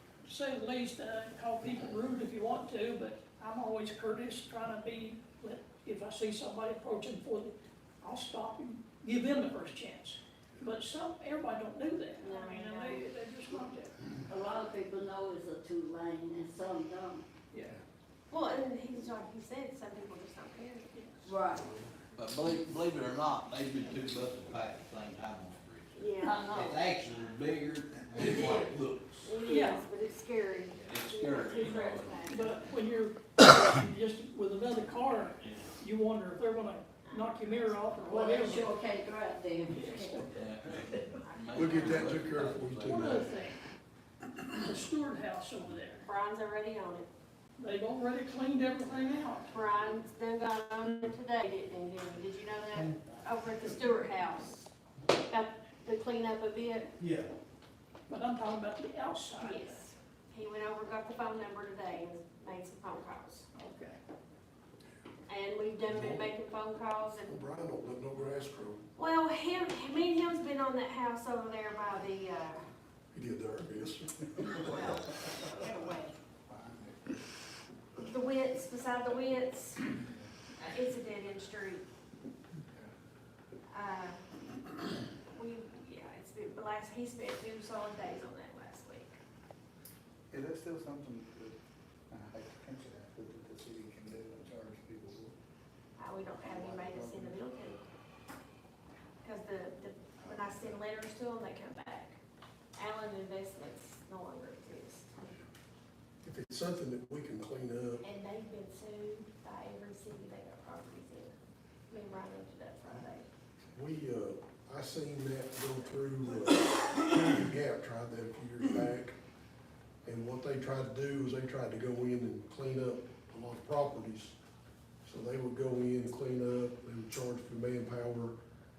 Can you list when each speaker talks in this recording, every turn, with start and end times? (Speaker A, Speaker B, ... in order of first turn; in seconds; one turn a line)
Speaker A: 0.2-13.9
Speaker B: 12.2-13.0
Speaker C: 14.3-17.3
Speaker A: 17.5-17.8
Speaker B: 18.3-21.3
Speaker A: 20.9-21.2
Speaker C: 21.2-21.7
Speaker D: 22.1-26.0
Speaker B: 25.9-26.5
Speaker C: 26.2-27.0
Speaker D: 26.5-29.4
Speaker C: 28.3-28.5
Speaker B: 29.2-32.4
Speaker A: 29.5-29.8
Speaker D: 30.7-32.7
Speaker A: 32.3-38.8
Speaker D: 35.4-35.7
Speaker B: 37.1-38.1
Speaker C: 38.1-40.3
Speaker A: 39.7-40.2
Speaker D: 39.9-43.0
Speaker B: 41.3-42.1
Speaker E: 41.5-43.3
Speaker A: 42.8-43.6
Speaker A: 44.6-46.1
Speaker B: 46.0-47.1
Speaker A: 47.6-49.5
Speaker B: 49.5-56.9
Speaker A: 58.1-59.8
Speaker B: 59.4-63.5
Speaker A: 63.6-64.0
Speaker B: 65.3-67.3
Speaker E: 65.9-66.3
Speaker E: 67.3-68.8
Speaker B: 69.0-72.7
Speaker E: 73.1-75.0
Speaker B: 74.6-76.2
Speaker F: 76.5-77.0
Speaker B: 78.0-79.9
Speaker F: 80.0-80.3
Speaker B: 80.6-81.8
Speaker B: 83.7-84.2
Speaker B: 85.3-89.2
Speaker F: 90.3-91.6
Speaker F: 92.1-95.3
Speaker B: 96.0-97.8
Speaker F: 96.4-97.5
Speaker B: 99.2-102.2
Speaker B: 102.8-105.3
Speaker E: 106.2-108.0
Speaker B: 108.0-111.4
Speaker B: 111.9-113.3
Speaker E: 113.7-119.2
Speaker E: 120.0-124.4
Speaker E: 125.0-128.3